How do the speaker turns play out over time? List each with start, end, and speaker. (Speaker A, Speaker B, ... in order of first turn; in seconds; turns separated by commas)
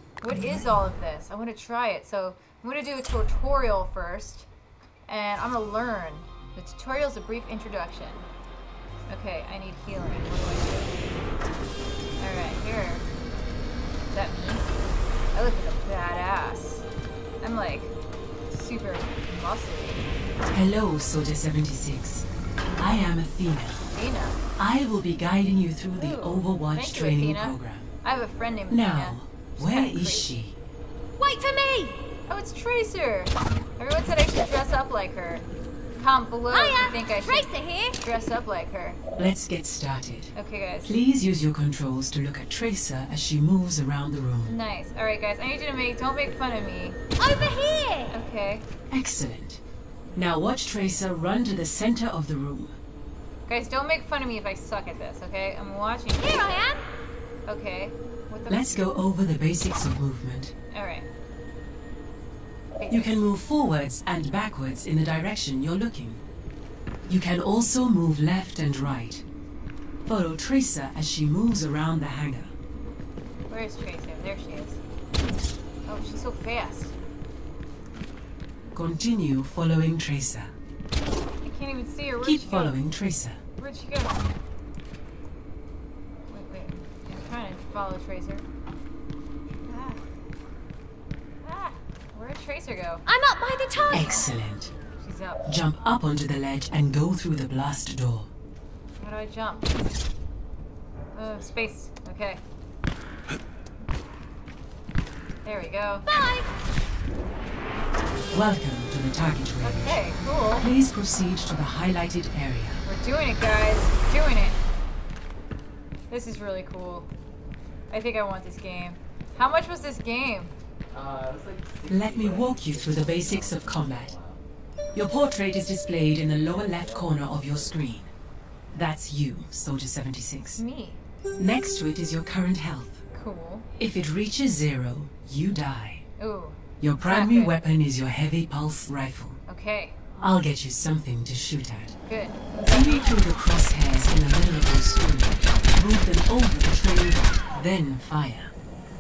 Speaker A: 0.2-4.5, Speaker A: 5.1-8.3, Speaker A: 9.1-11.0, Speaker A: 12.2-13.1, Speaker A: 14.1-14.7, Speaker A: 15.3-16.9, Speaker A: 17.4-17.9, Speaker A: 18.5-20.0, Speaker B: 20.5-23.8, Speaker A: 23.9-24.4, Speaker B: 24.6-27.9, Speaker A: 25.9-30.3, Speaker B: 28.7-30.6, Speaker C: 31.2-32.0, Speaker A: 32.3-35.5, Speaker A: 36.0-37.5, Speaker C: 36.5-38.0, Speaker A: 38.0-39.0, Speaker B: 39.2-40.3, Speaker A: 40.3-41.0, Speaker B: 40.8-44.5, Speaker A: 44.5-47.0, Speaker C: 47.2-48.1, Speaker A: 48.1-48.6, Speaker B: 48.9-49.6, Speaker B: 50.1-52.7, Speaker A: 53.5-56.6, Speaker C: 56.2-56.8, Speaker A: 57.5-58.8, Speaker B: 58.5-60.5, Speaker A: 60.7-61.0, Speaker A: 62.8-63.1, Speaker B: 62.9-66.2, Speaker B: 67.1-69.2, Speaker B: 70.0-72.5, Speaker A: 73.5-74.8, Speaker A: 75.9-76.9, Speaker B: 78.7-80.5, Speaker A: 81.4-82.8, Speaker B: 82.2-83.4, Speaker A: 83.6-84.3, Speaker A: 86.3-88.5, Speaker A: 89.7-90.0, Speaker A: 91.4-93.0, Speaker C: 93.1-94.3, Speaker D: 93.6-94.3, Speaker B: 93.9-94.7, Speaker A: 95.0-95.5, Speaker B: 95.5-98.3, Speaker A: 99.0-99.8, Speaker A: 101.1-102.4, Speaker A: 105.4-106.1, Speaker C: 106.1-106.5, Speaker B: 108.3-112.8, Speaker A: 109.6-110.7, Speaker A: 112.8-114.6, Speaker A: 116.1-117.1, Speaker A: 117.9-120.5, Speaker D: 120.9-124.4, Speaker B: 121.9-124.1, Speaker B: 124.9-128.1, Speaker D: 126.5-127.5, Speaker B: 128.7-130.6, Speaker A: 130.6-131.0, Speaker B: 131.4-133.0, Speaker A: 133.1-133.7, Speaker B: 133.8-136.0, Speaker A: 136.2-137.6, Speaker B: 136.8-139.4, Speaker A: 139.5-140.0, Speaker B: 140.2-142.0, Speaker A: 142.0-143.1, Speaker B: 142.6-148.5